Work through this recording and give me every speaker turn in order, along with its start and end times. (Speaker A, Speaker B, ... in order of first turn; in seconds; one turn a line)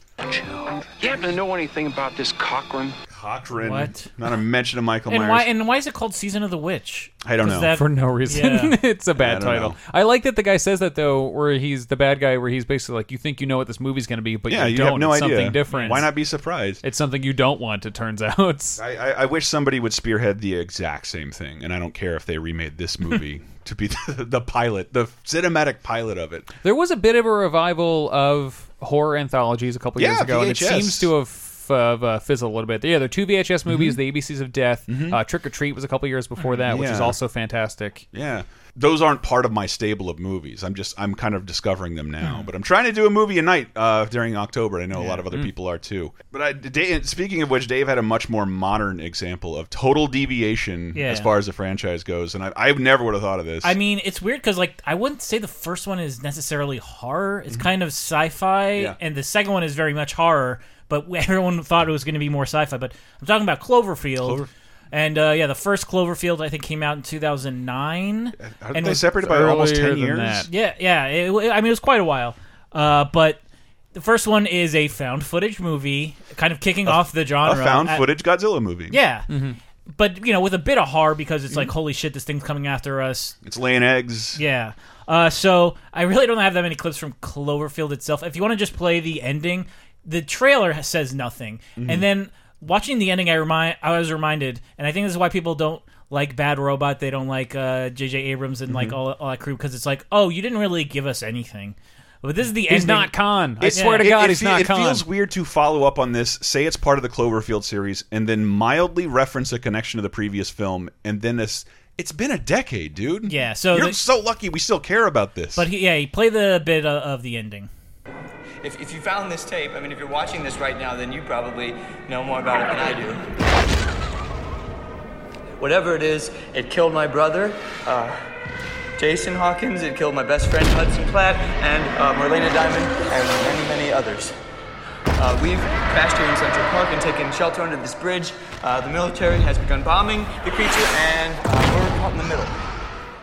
Speaker A: 1.0-3.0
Speaker B: 3.1-5.5
Speaker C: 3.6-4.1
Speaker C: 5.1-8.8
Speaker B: 7.2-7.7
Speaker D: 7.7-16.1
Speaker B: 9.2-9.8
Speaker B: 14.5-16.8
Speaker C: 15.7-16.1
Speaker D: 16.8-18.8
Speaker B: 18.8-26.5
Speaker D: 26.6-38.1
Speaker B: 30.0-31.1
Speaker B: 33.7-34.0
Speaker B: 34.9-35.2
Speaker B: 36.7-37.2
Speaker B: 38.1-53.7
Speaker C: 42.2-42.5
Speaker C: 51.0-51.3
Speaker C: 53.6-69.0
Speaker B: 64.2-64.5
Speaker B: 68.4-70.5
Speaker D: 69.2-70.5
Speaker C: 70.5-73.4
Speaker C: 73.9-78.1
Speaker B: 76.9-79.0
Speaker C: 78.9-79.3
Speaker D: 79.3-79.6
Speaker C: 79.9-83.4
Speaker B: 83.4-84.4
Speaker C: 84.4-103.1
Speaker B: 91.8-92.0
Speaker B: 98.7-99.0
Speaker D: 102.7-105.1
Speaker B: 103.6-115.7
Speaker C: 103.7-104.1
Speaker C: 113.3-114.0
Speaker C: 115.6-117.7
Speaker E: 118.6-123.3
Speaker E: 125.6-128.2
Speaker E: 129.0-134.4
Speaker E: 135.2-142.6